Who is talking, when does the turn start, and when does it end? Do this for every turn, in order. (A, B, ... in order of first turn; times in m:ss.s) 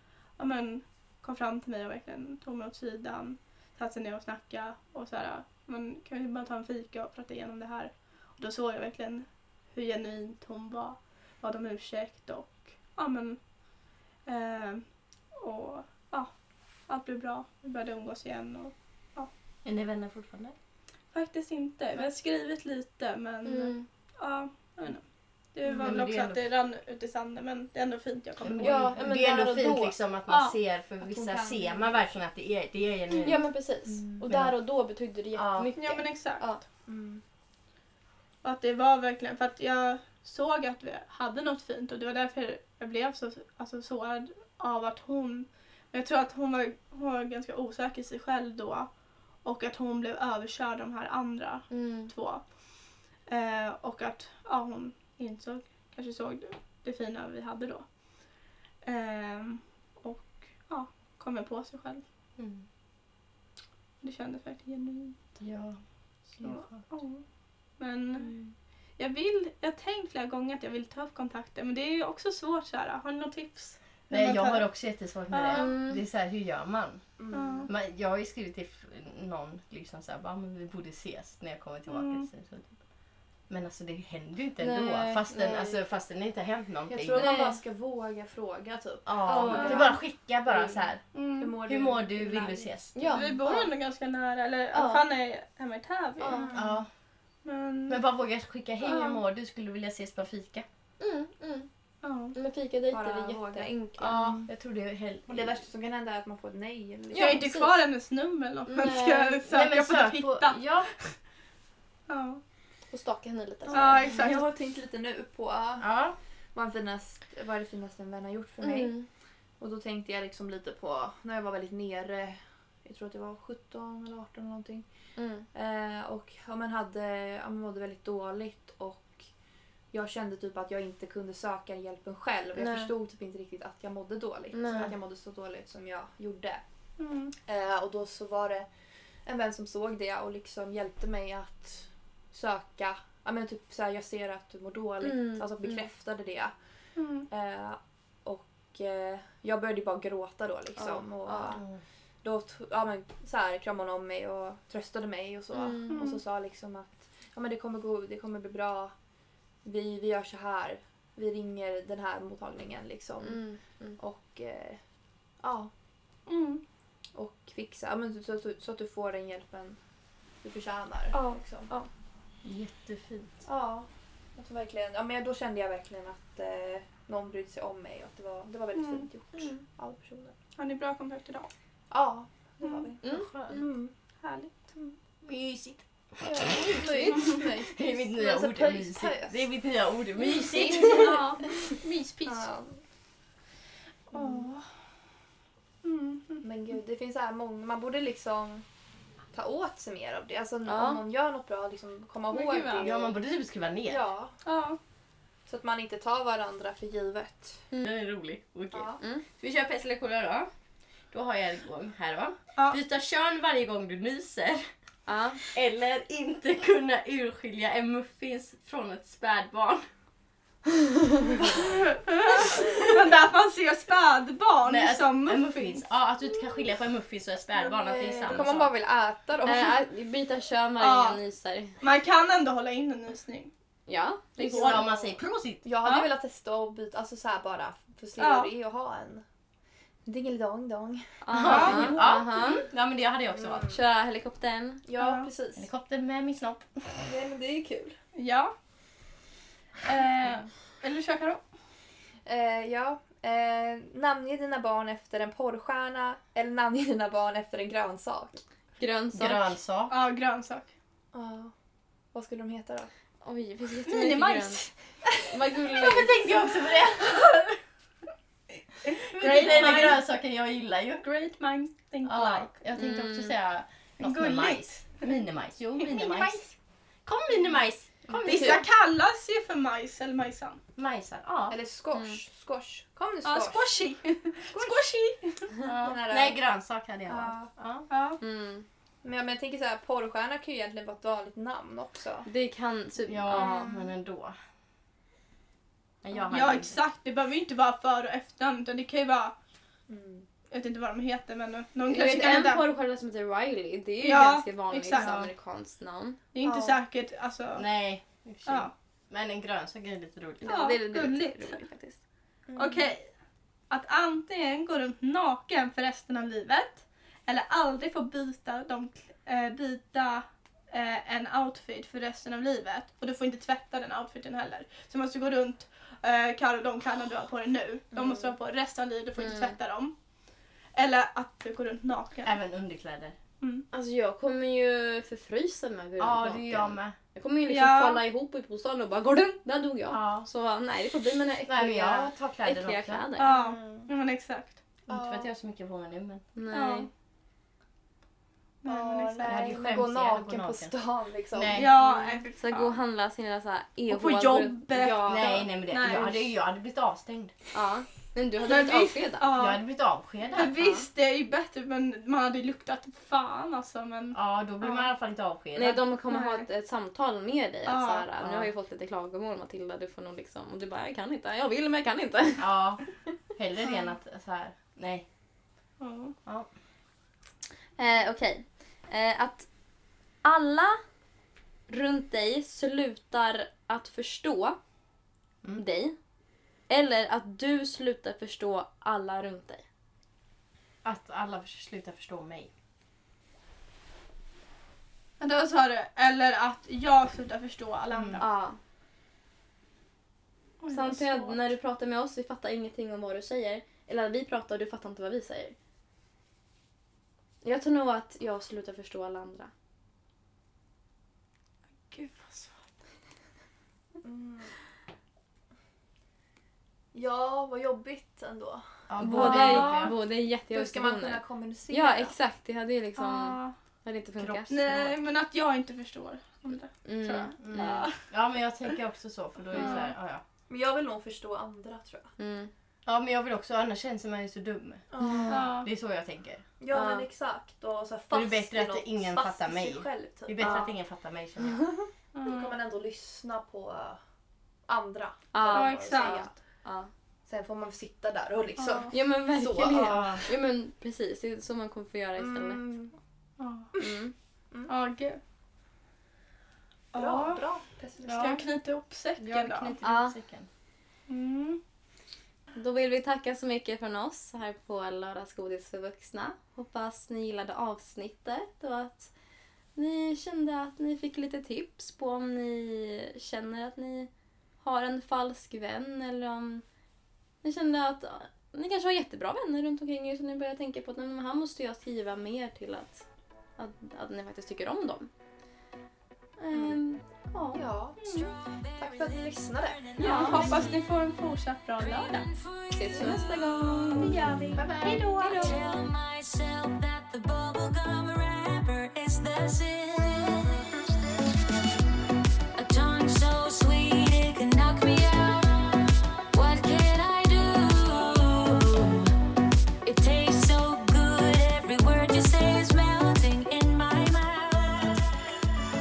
0:00.4-0:13.4 A
0:14.2-0:16.3 A
0:16.9-0:19.3 A
0:19.6-0:20.5 B
0:21.1-0:29.0 A
0:23.4-0:23.8 C
0:25.6-0:25.9 D
0:25.8-0:26.4 B
0:28.4-0:33.4 B
0:28.6-0:30.0 C
0:30.3-0:30.6 A
0:31.0-0:32.1 D
0:33.2-0:36.6 C
0:33.9-0:34.2 D
0:34.3-0:34.5 B
0:35.3-0:35.7 B
0:35.8-0:36.6 A
0:36.8-0:37.2 D
0:38.4-0:48.9 A
0:49.4-1:02.0 A
0:51.7-0:52.1 C
1:02.4-1:02.6 B
1:04.0-1:05.4 A
1:05.4-1:06.8 B
1:06.4-1:07.2 A
1:07.8-1:08.3 A
1:09.0-1:14.7 A
1:14.1-1:17.1 B
1:15.3-1:15.7 A
1:15.5-1:16.0 C
1:17.2-1:17.7 D
1:17.3-1:17.7 A
1:17.6-1:22.8 B
1:21.9-1:22.3 A
1:23.5-1:27.3 B
1:24.6-1:25.8 C
1:26.9-1:30.8 D
1:27.2-1:27.6 C
1:29.0-1:31.0 B
1:29.3-1:29.9 C
1:29.5-1:29.9 A
1:31.1-1:31.5 A
1:31.4-1:33.2 D
1:31.6-1:33.0 B
1:32.9-1:33.7 C
1:33.1-1:36.4 A
1:34.7-1:35.0 C
1:36.2-1:36.6 C
1:36.3-1:36.8 D
1:36.5-1:36.9 B
1:37.4-1:38.0 A
1:37.9-1:40.6 B
1:38.8-1:39.2 A
1:41.0-1:41.7 C
1:42.0-1:42.4 A
1:42.3-1:44.4 C
1:42.9-1:44.5 D
1:44.4-1:45.6 B
1:45.3-1:47.5 D
1:47.1-1:47.8 C
1:47.1-1:51.1 A
1:48.7-1:49.4 C
1:49.5-1:50.9 B
1:52.1-1:52.4 A
1:52.9-1:54.1 C
1:53.7-1:54.5 A
1:53.7-1:55.9 D
1:55.8-1:56.2 B
1:56.5-1:58.9 D
1:58.6-1:59.1 C
1:59.6-2:04.9 D
2:05.2-2:05.5 C
2:05.5-2:09.3 D
2:09.9-2:16.6 D
2:12.6-2:12.9 C
2:14.5-2:14.9 C
2:17.0-2:17.3 A
2:17.4-2:18.7 D
2:19.2-2:26.5 D
2:25.0-2:25.8 C
2:27.0-2:27.3 A
2:27.3-2:31.7 D
2:30.8-2:31.6 C
2:32.2-2:38.9 D
2:35.5-2:36.1 C
2:35.9-2:36.2 A
2:39.6-2:43.4 D
2:43.2-2:44.0 C
2:44.0-2:44.8 D
2:45.4-2:45.7 D
2:46.3-2:46.6 A
2:47.1-2:49.8 D
2:50.4-2:51.7 D
2:51.1-2:51.9 C
2:52.4-2:53.3 B
2:53.4-3:00.3 D
2:58.7-2:59.1 A
2:59.3-2:59.6 C
3:00.6-3:01.5 A
3:01.9-3:03.9 D
3:02.6-3:02.9 A
3:03.0-3:03.6 C
3:03.1-3:03.6 B
3:04.2-3:04.7 A
3:05.2-3:06.8 B
3:06.2-3:09.4 D
3:06.6-3:07.3 C
3:07.7-3:11.2 B
3:10.5-3:12.5 A
3:10.7-3:11.2 D
3:12.2-3:12.8 D
3:14.1-3:14.5 D
3:14.1-3:14.6 A
3:15.8-3:16.4 A
3:16.4-3:18.6 D
3:19.3-3:23.2 D
3:20.6-3:21.0 C
3:22.3-3:22.9 A
3:22.8-3:24.0 B
3:23.9-3:24.3 D
3:24.4-3:24.8 A
3:25.4-3:27.6 D
3:27.8-3:30.5 B
3:28.7-3:29.0 D
3:29.0-3:29.2 C
3:31.1-3:34.6 B
3:35.1-3:35.4 C
3:35.5-3:39.8 B
3:42.4-3:45.8 A
3:44.6-3:48.7 B
3:47.7-3:49.8 D
3:49.4-3:51.8 C
3:50.8-3:51.2 A
3:51.8-3:53.5 A
3:53.9-3:54.8 C
3:54.4-3:54.9 A
3:54.5-3:55.6 B
3:54.6-3:55.0 D
3:55.6-3:59.2 D
3:55.8-3:56.1 A
3:58.2-3:58.5 A
4:00.0-4:01.9 D
4:01.2-4:02.6 C
4:01.3-4:03.7 B
4:01.3-4:02.0 A
4:03.3-4:03.8 D
4:03.7-4:04.8 C
4:04.8-4:05.7 D
4:05.0-4:05.3 A
4:05.6-4:07.1 B
4:07.0-4:08.0 D
4:08.2-4:08.5 A
4:09.8-4:11.4 A
4:12.2-4:18.4 D
4:18.8-4:19.5 C
4:19.1-4:19.9 B
4:19.9-4:20.7 A
4:21.1-4:21.5 D
4:22.1-4:22.9 D
4:23.2-4:24.7 C
4:23.8-4:24.7 A
4:25.2-4:26.3 C
4:25.8-4:27.6 B
4:28.9-4:30.0 A
4:29.1-4:31.0 B
4:31.0-4:32.5 A
4:32.0-4:36.5 B
4:32.7-4:33.3 C
4:34.0-4:34.8 A
4:35.8-4:36.4 A
4:37.0-4:38.7 B
4:38.2-4:40.6 A
4:40.8-4:41.6 B
4:41.5-4:43.8 D
4:41.9-4:42.2 C
4:43.2-4:45.5 A
4:45.6-4:47.9 B
4:45.6-4:46.4 D
4:47.0-4:47.5 D
4:47.9-4:48.2 A
4:48.2-4:48.6 C
4:49.0-4:52.3 D
4:52.2-4:53.7 C
4:53.1-4:54.4 B
4:56.0-4:56.8 B
4:56.3-4:59.3 A
4:59.9-5:00.2 D
5:00.5-5:02.6 A
5:01.9-5:06.2 C
5:04.0-5:05.3 A
5:06.3-5:07.7 A
5:06.4-5:06.8 D
5:07.5-5:10.6 B
5:08.4-5:08.7 A
5:10.4-5:12.0 C
5:10.4-5:11.6 A
5:12.5-5:12.9 D
5:12.5-5:13.1 A
5:13.7-5:29.9 A
5:27.9-5:28.3 D
5:29.2-5:29.6 C
5:30.7-5:32.4 A
5:32.2-5:33.2 B
5:33.4-5:33.6 A
5:33.7-5:43.4 C
5:36.0-5:37.0 B
5:37.5-5:38.0 A
5:39.9-5:40.3 B
5:41.5-5:43.0 B
5:43.2-5:44.6 A
5:43.2-5:43.9 D
5:44.9-5:46.2 B
5:44.9-5:45.3 D
5:46.3-5:46.9 C
5:46.5-5:46.9 A
5:48.6-5:49.5 A
5:48.6-5:52.2 D
5:49.2-5:50.7 B
5:51.3-5:51.7 B
5:51.5-5:52.8 A
5:52.4-5:56.3 C
5:53.9-5:56.1 A
5:55.0-5:57.3 B
5:57.5-5:59.3 C
5:58.4-5:59.6 A
5:59.3-6:00.5 B
6:00.3-6:04.8 A
6:00.4-6:00.9 C
6:04.1-6:05.8 B
6:05.6-6:13.1 C
6:06.1-6:06.5 A
6:07.6-6:08.1 A
6:08.2-6:08.5 B
6:12.4-6:15.0 B
6:15.8-6:16.2 A
6:17.8-6:19.5 C
6:20.2-6:20.8 C
6:21.7-6:24.6 C
6:25.6-6:26.0 C
6:26.7-6:29.6 C
6:30.8-6:32.5 B
6:35.2-6:38.2 A
6:37.9-6:38.2 B
6:38.2-6:38.6 C
6:40.6-6:41.4 A
6:40.7-6:45.5 C
6:47.4-6:49.5 C
6:51.9-6:52.5 A
6:54.0-6:54.5 D
6:56.9-6:58.8 D
6:58.9-6:59.9 B
6:59.0-7:04.6 C
6:59.1-6:59.9 A
7:00.5-7:02.2 D
7:03.0-7:03.5 A
7:04.2-7:04.9 B
7:04.5-7:08.0 A
7:06.8-7:07.9 C
7:07.4-7:10.2 B
7:09.5-7:09.9 A
7:09.5-7:09.8 C
7:10.5-7:12.1 D
7:12.2-7:12.5 C
7:12.8-7:16.4 B
7:14.9-7:15.6 D
7:15.0-7:15.4 C
7:15.3-7:15.7 A
7:16.6-7:20.7 D
7:16.7-7:17.1 C
7:18.1-7:21.7 B
7:20.4-7:20.7 C
7:22.1-7:22.6 A
7:22.2-7:24.0 D
7:24.7-7:26.3 D
7:25.3-7:26.9 C
7:25.5-7:26.2 A
7:27.2-7:30.2 D
7:28.6-7:28.9 A
7:28.9-7:32.7 C
7:29.6-7:30.2 B
7:32.2-7:32.9 D
7:33.4-7:33.7 A
7:33.8-7:34.1 C
7:34.7-7:35.2 A
7:36.9-7:37.5 A
7:36.9-7:38.4 D
7:38.0-7:39.7 A
7:39.2-7:40.5 B
7:39.8-7:40.2 C
7:41.1-7:41.6 A
7:42.5-7:49.1 C
7:49.7-7:54.1 C
7:54.6-7:56.6 C
7:57.4-8:03.0 C
8:03.6-8:05.1 C
8:06.4-8:07.6 C
8:06.5-8:06.8 D
8:07.5-8:08.0 D
8:08.0-8:08.3 A
8:08.0-8:10.8 E
8:08.8-8:10.4 D
8:10.0-8:12.2 A
8:10.0-8:10.7 C
8:11.8-8:14.7 E
8:12.7-8:14.2 C
8:14.0-8:15.5 A
8:14.6-8:15.0 B
8:14.9-8:15.5 D
8:15.2-8:20.6 E
8:22.5-8:29.1 E
8:29.8-8:35.3 E